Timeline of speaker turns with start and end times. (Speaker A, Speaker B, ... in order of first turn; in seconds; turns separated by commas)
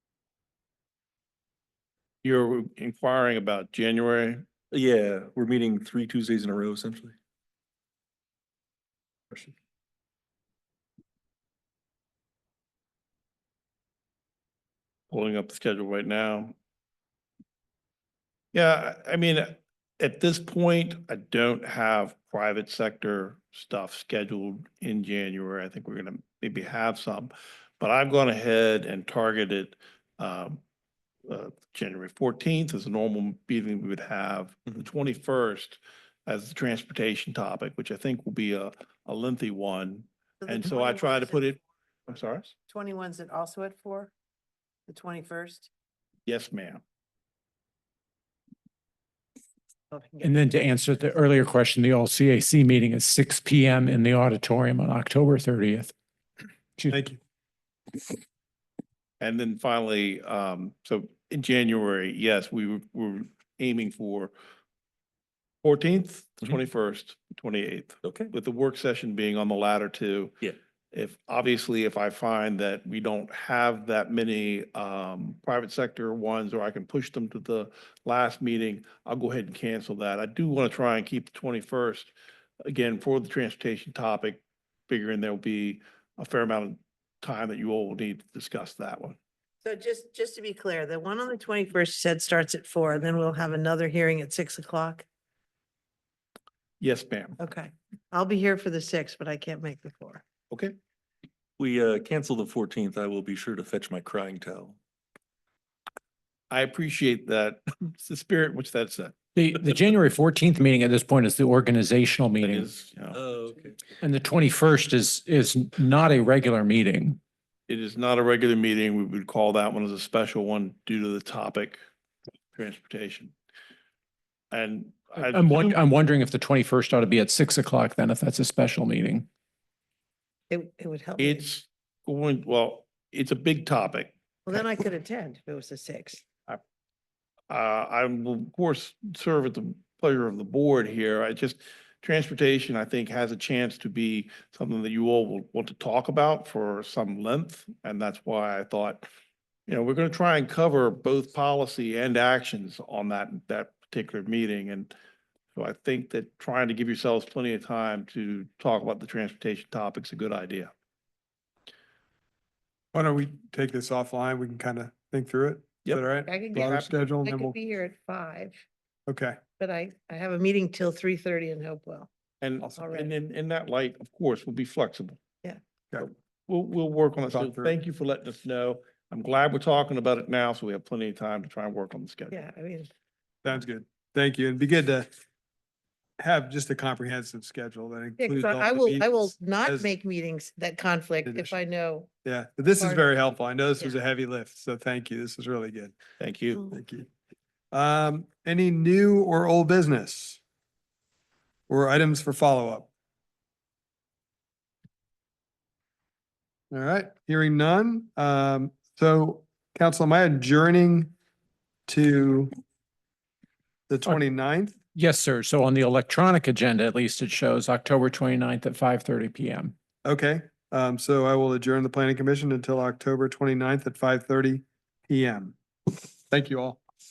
Speaker A: 2.2-4.4, Speaker B: 4.7-7.2, Speaker A: 15.1-16.5, Speaker A: 18.5-30.6, Speaker A: 31.3-42.5, Speaker C: 40.4-41.6, Speaker C: 42.7-44.1, Speaker C: 44.9-45.7, Speaker A: 46.2-46.8, Speaker C: 49.9-50.5, Speaker D: 50.2-55.9, Speaker E: 56.9-57.2, Speaker A: 59.2-64.3, Speaker A: 65.6-70.3, Speaker B: 68.0-68.3, Speaker A: 70.9-82.1, Speaker A: 82.6-89.2, Speaker C: 89.6-95.0, Speaker A: 96.8-97.4, Speaker C: 97.4-100.2, Speaker A: 100.5-100.8, Speaker B: 101.6-104.8, Speaker A: 106.5-109.1, Speaker D: 109.3-112.7, Speaker A: 112.4-113.2, Speaker B: 113.1-113.8, Speaker D: 114.0-117.2, Speaker A: 117.7-121.8, Speaker A: 122.5-123.3, Speaker A: 124.5-125.8, Speaker D: 125.2-129.3, Speaker C: 130.5-131.4, Speaker A: 131.2-134.6, Speaker C: 134.5-136.2, Speaker A: 137.5-149.1, Speaker A: 149.7-154.9, Speaker A: 155.5-160.7, Speaker E: 162.9-167.6, Speaker C: 166.2-168.6, Speaker E: 169.1-169.4, Speaker C: 169.6-172.1, Speaker A: 172.4-175.2, Speaker C: 172.8-173.1, Speaker A: 176.0-182.3, Speaker E: 177.3-177.7, Speaker C: 182.3-182.9, Speaker E: 183.4-185.1, Speaker E: 186.2-189.9, Speaker C: 188.2-192.1, Speaker E: 191.2-191.6, Speaker E: 192.2-195.9, Speaker C: 192.8-193.1, Speaker A: 196.2-196.6, Speaker E: 196.7-197.1, Speaker E: 197.7-200.4, Speaker E: 201.7-202.9, Speaker E: 206.7-211.1, Speaker E: 211.9-212.5, Speaker E: 213.9-214.7, Speaker D: 214.9-219.7, Speaker E: 220.0-225.6, Speaker E: 226.3-226.8